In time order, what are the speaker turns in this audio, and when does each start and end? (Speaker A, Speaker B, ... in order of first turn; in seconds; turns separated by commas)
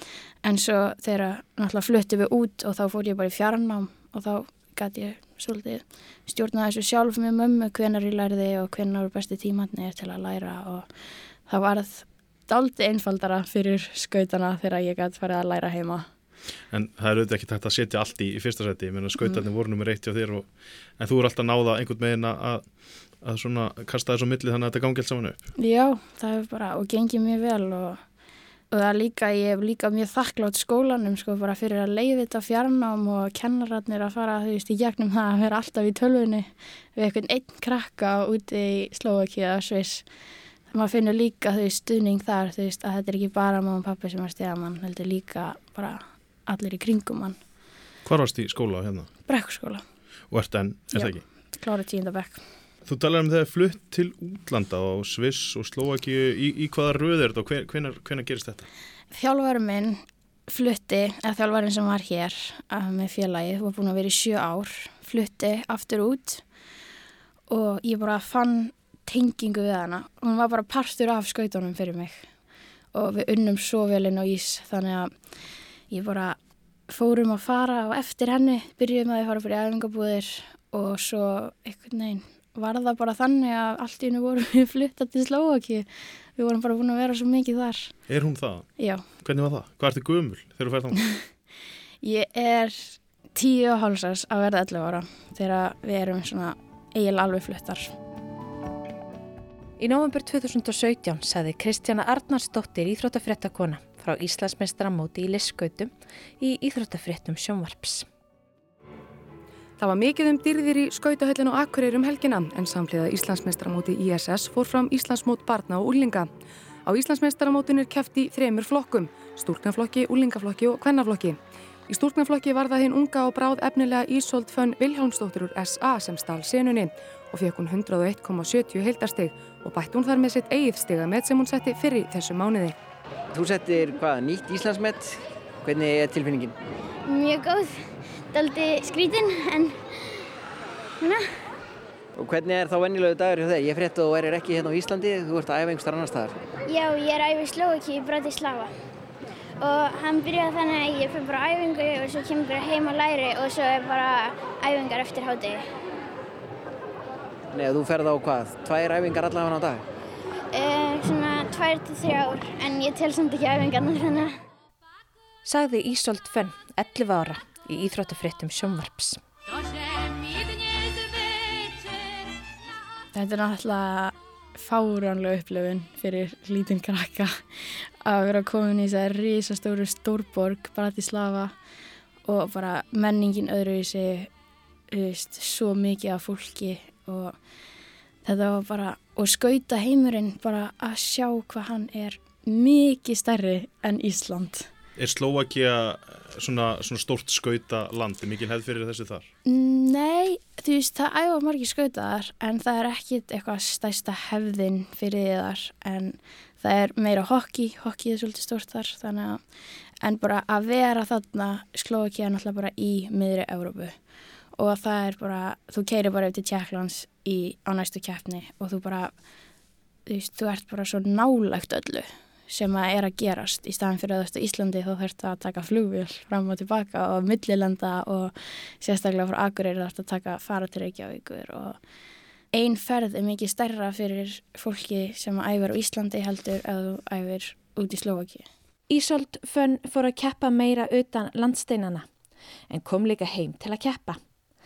Speaker A: 0.4-10.8, Speaker A: 11.5-16.1, Speaker B: 16.7-22.6, Speaker B: 23.2-25.4, Speaker A: 25.6-28.0, Speaker A: 28.7-40.0, Speaker A: 40.7-47.4, Speaker B: 48.0-49.1, Speaker A: 49.3-49.8, Speaker B: 50.3-51.2, Speaker A: 50.9-52.4, Speaker B: 52.9-58.7, Speaker A: 59.1-66.4, Speaker A: 67.5-72.2, Speaker A: 72.9-75.1, Speaker A: 75.9-76.4, Speaker A: 76.9-87.9, Speaker B: 88.1-88.7, Speaker A: 88.8-89.0, Speaker B: 89.2-91.0, Speaker A: 92.0-97.9, Speaker C: 99.8-108.0, Speaker D: 109.8-116.3, Speaker D: 116.8-121.4, Speaker D: 121.9-132.7, Speaker E: 133.3-136.5, Speaker F: 137.1-137.8, Speaker F: 138.3-139.8, Speaker F: 141.0-141.2, Speaker E: 142.2-146.3, Speaker F: 146.7-148.7, Speaker F: 149.6-155.6, Speaker E: 157.5-159.8, Speaker F: 160.5-164.4, Speaker C: 165.4-169.2, Speaker A: 173.1-181.5, Speaker A: 182.2-184.3, Speaker A: 184.9-187.3, Speaker A: 188.2-194.7, Speaker B: 195.0-199.3, Speaker A: 199.4-209.4, Speaker A: 210.0-213.9, Speaker A: 214.6-219.1, Speaker A: 220.1-231.8, Speaker A: 232.5-238.4, Speaker C: 238.9-242.1, Speaker C: 242.7-244.2